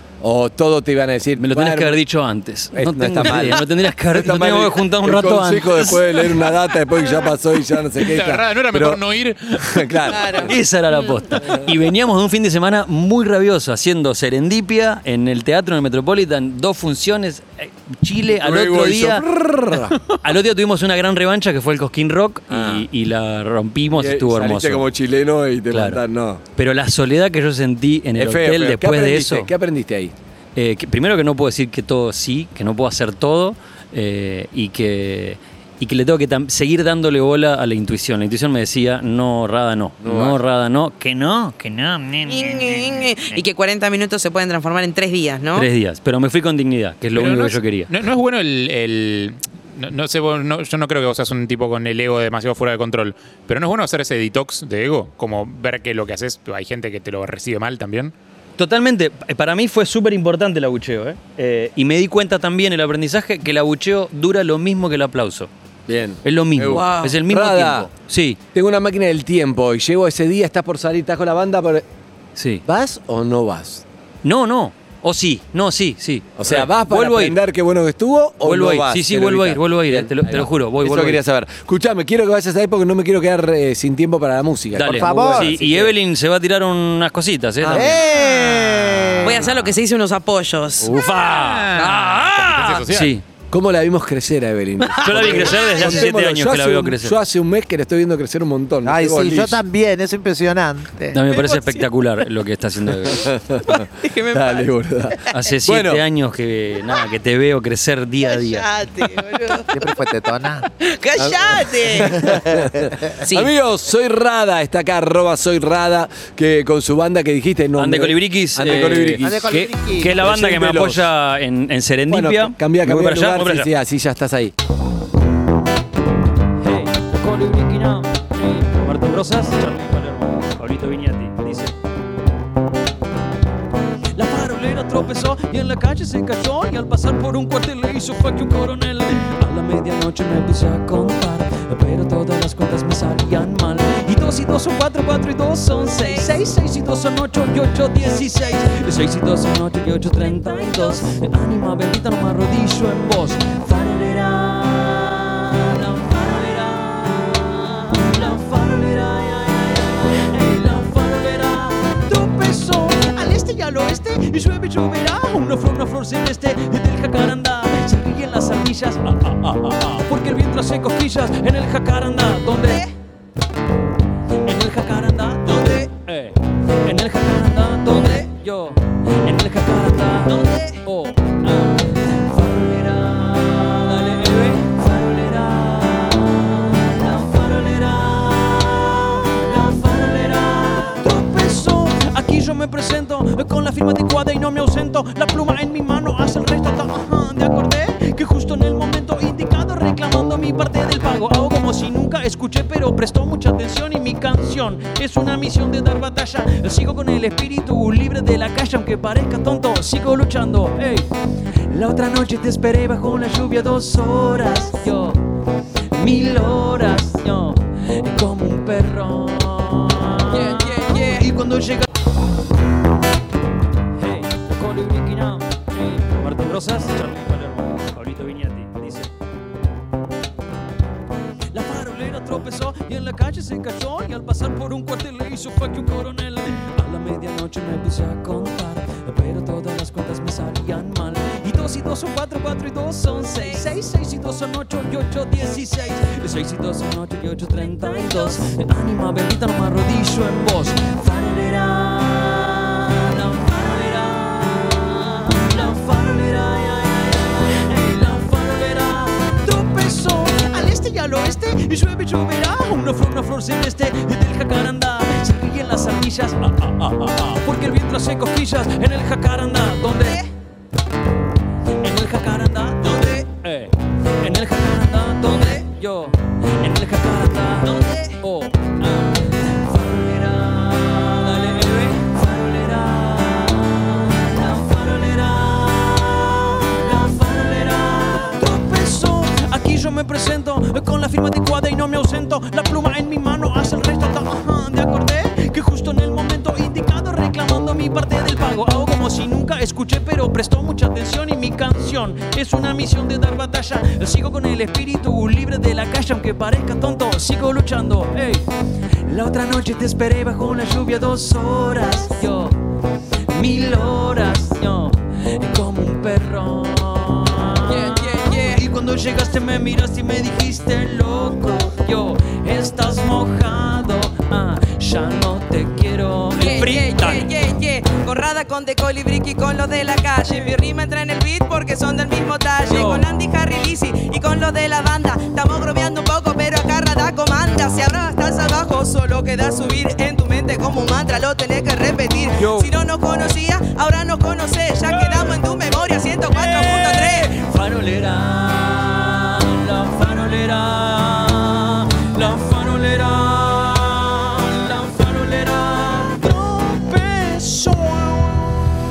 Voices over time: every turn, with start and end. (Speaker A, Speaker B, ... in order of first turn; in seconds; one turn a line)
Speaker A: 0.2-2.0
Speaker B: 1.4-6.2
Speaker A: 2.7-9.0
Speaker C: 8.0-9.9
Speaker A: 9.5-10.5
Speaker D: 10.1-10.5
Speaker B: 10.4-19.2
Speaker A: 18.3-20.0
Speaker B: 20.0-24.9
Speaker A: 22.5-22.9
Speaker A: 23.9-26.4
Speaker B: 25.7-26.0
Speaker B: 26.5-29.5
Speaker A: 28.1-30.1
Speaker B: 30.6-43.4
Speaker A: 40.0-40.4
Speaker D: 42.3-45.7
Speaker B: 45.5-47.9
Speaker C: 47.1-58.1
Speaker B: 58.6-65.5
Speaker A: 65.9-67.9
Speaker B: 66.2-68.4
Speaker A: 68.5-71.8
Speaker B: 72.3-72.6
Speaker A: 72.6-73.8
Speaker B: 74.2-77.4
Speaker A: 76.4-85.9
Speaker B: 78.4-81.2
Speaker B: 84.7-88.0
Speaker E: 84.8-85.5
Speaker A: 87.6-88.0
Speaker E: 87.7-89.5
Speaker D: 88.0-88.4
Speaker A: 89.2-89.4
Speaker D: 89.2-91.0
Speaker B: 90.8-93.2
Speaker C: 91.1-93.1
Speaker A: 93.5-99.6
Speaker D: 94.8-96.0
Speaker B: 95.0-97.2
Speaker E: 98.8-101.2
Speaker B: 101.1-103.3
Speaker D: 101.3-101.8
Speaker A: 102.9-106.0
Speaker D: 103.7-104.7
Speaker B: 105.3-108.7
Speaker D: 108.2-109.7
Speaker E: 109.7-110.7
Speaker D: 110.8-112.4
Speaker A: 111.2-121.1
Speaker D: 113.2-113.5
Speaker B: 117.8-123.7
Speaker E: 119.2-120.2
Speaker A: 122.1-124.5
Speaker B: 126.6-131.7
Speaker B: 134.1-172.8
Speaker D: 145.9-146.3
Speaker D: 150.4-150.8
Speaker D: 172.6-172.9
Speaker B: 174.4-211.1
Speaker D: 175.5-175.8
Speaker D: 180.3-180.8
Speaker B: 211.7-215.2
Speaker B: 215.9-221.9
Speaker D: 220.3-221.2
Speaker B: 223.9-229.1
Speaker B: 231.5-270.2
Speaker D: 243.3-243.7
Speaker D: 270.0-270.3
Speaker B: 271.8-308.4
Speaker D: 272.9-273.2
Speaker D: 277.6-278.1
Speaker B: 309.0-312.6
Speaker B: 313.3-327.3
Speaker D: 317.7-318.6
Speaker D: 326.4-347.3
Speaker B: 332.7-333.0
Speaker B: 342.4-342.7
Speaker B: 344.9-345.4
Speaker B: 346.3-358.6